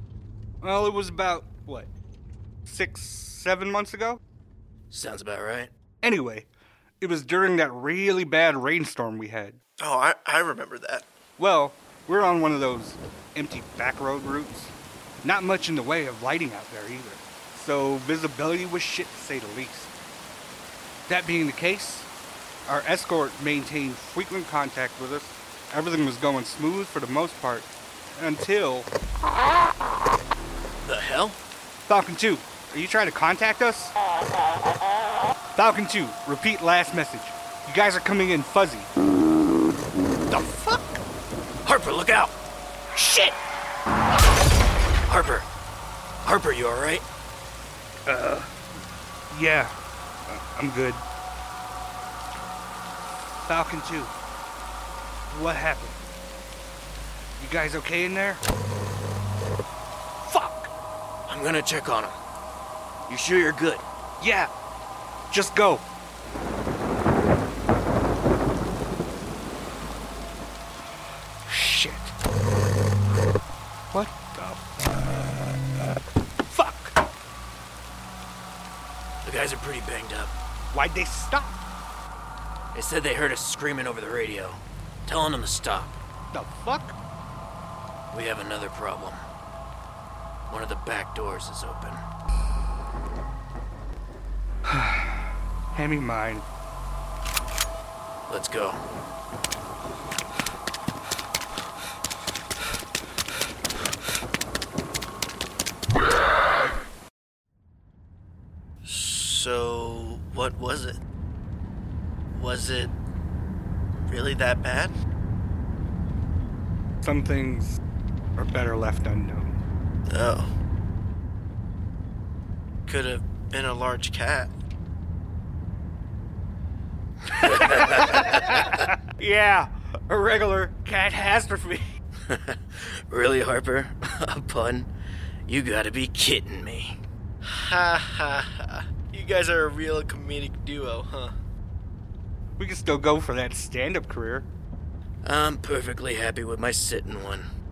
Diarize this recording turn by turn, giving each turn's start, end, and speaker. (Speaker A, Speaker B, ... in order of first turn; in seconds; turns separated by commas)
Speaker A: 0.6-1.9, Speaker A: 2.6-4.2, Speaker B: 4.9-5.7, Speaker A: 6.0-6.5, Speaker A: 7.0-9.6, Speaker C: 9.8-11.1, Speaker A: 11.4-19.9, Speaker A: 21.1-22.1, Speaker A: 22.6-28.9, Speaker B: 30.8-31.4, Speaker A: 31.9-33.9, Speaker A: 35.5-38.9, Speaker A: 40.3-41.0, Speaker B: 41.6-42.3, Speaker A: 42.9-43.4, Speaker B: 45.1-45.5, Speaker B: 46.2-47.0, Speaker A: 48.0-48.5, Speaker A: 49.3-49.7, Speaker A: 50.3-51.0, Speaker A: 53.4-54.1, Speaker A: 55.3-56.0, Speaker A: 57.4-58.4, Speaker A: 60.2-60.7, Speaker B: 61.3-62.2, Speaker B: 63.1-63.8, Speaker A: 64.2-64.5, Speaker A: 65.3-65.8, Speaker A: 71.5-72.1, Speaker A: 73.9-75.2, Speaker A: 76.5-77.0, Speaker B: 79.2-80.3, Speaker A: 80.7-81.6, Speaker B: 82.7-86.0, Speaker A: 86.3-87.0, Speaker B: 88.1-89.2, Speaker B: 90.5-92.0, Speaker A: 94.7-96.4, Speaker B: 98.3-98.8, Speaker C: 108.8-111.0, Speaker C: 112.3-112.9, Speaker C: 114.1-114.9, Speaker A: 117.0-117.8, Speaker A: 118.4-119.6, Speaker C: 120.1-120.5, Speaker C: 122.8-124.5, Speaker A: 127.3-131.9, Speaker B: 127.3-128.7, Speaker B: 132.3-134.9, Speaker B: 135.5-136.9, Speaker C: 137.4-141.3, Speaker A: 142.6-144.5, Speaker B: 145.2-147.5